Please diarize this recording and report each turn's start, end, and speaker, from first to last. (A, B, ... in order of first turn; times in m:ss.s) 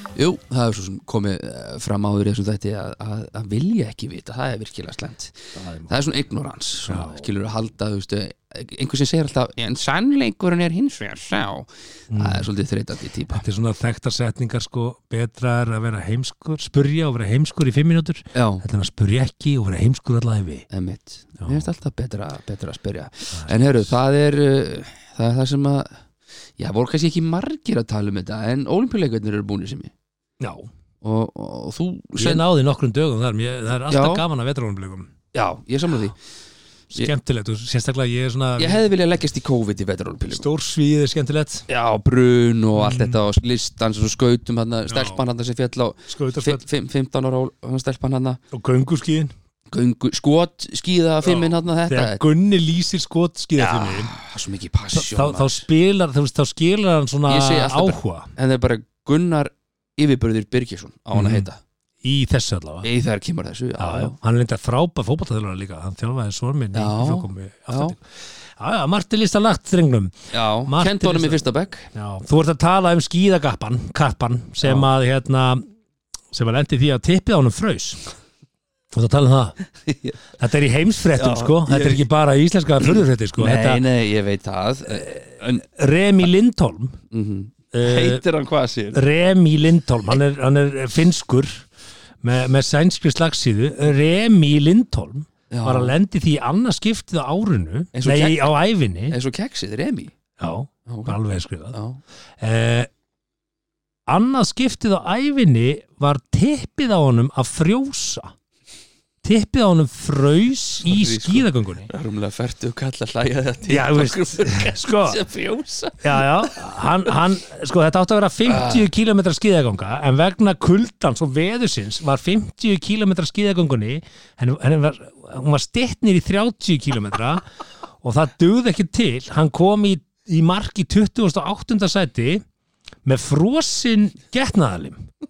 0:00.2-0:05.4 A
0:05.6-0:05.9 B
0:05.9-0:13.4 A
0:06.9-0:07.3 B
0:12.1-0:12.5 B
0:13.3-0:20.7 B
0:18.4-0:18.6 A
0:20.7-0:26.0 A
0:21.4-0:21.7 B
0:26.6-0:29.9 A
0:30.4-0:30.7 B
0:31.0-0:32.4 A
0:32.2-0:35.1 B
0:33.9-0:34.2 A
0:35.3-0:36.2 A
0:36.9-0:38.8 B
0:38.6-0:40.5 A
0:40.3-0:41.6 B
0:41.7-0:48.4 A
0:42.8-0:43.2 B
0:44.9-0:45.2 B
0:46.1-0:46.6 B
0:48.5-0:49.3 B
0:49.7-0:52.2 A
0:51.2-0:54.1 B
0:53.6-0:55.7 A
0:54.9-0:58.3 B
0:57.3-1:01.6 A
1:01.1-1:01.5 B
1:02.0-1:02.9 B
1:02.8-1:04.2 A
1:03.8-1:10.2 B
1:06.7-1:08.0 A
1:10.3-1:11.9 A
1:10.7-1:11.4 B
1:11.9-1:15.6 B
1:14.6-1:14.9 A
1:16.3-1:18.0 B
1:18.9-1:19.6 B
1:19.8-1:20.2 A
1:20.4-1:23.8 B
1:21.2-1:22.0 A
1:22.8-1:25.6 A
1:24.9-1:27.0 B
1:27.1-1:29.0 A
1:27.7-1:28.2 B
1:28.9-1:31.6 B
1:32.2-1:39.2 B
1:35.5-1:35.9 A
1:37.9-1:38.5 A
1:39.1-1:40.1 A
1:40.4-1:41.8 B
1:40.9-1:41.2 A
1:41.7-1:42.0 A
1:42.4-1:42.9 B
1:44.1-1:48.3 B
1:49.2-1:51.9 B
1:50.8-1:56.6 A
1:53.7-1:55.2 B
1:56.0-2:07.4 B
1:58.5-1:58.9 A
2:08.0-2:12.4 B
2:13.1-2:15.1 B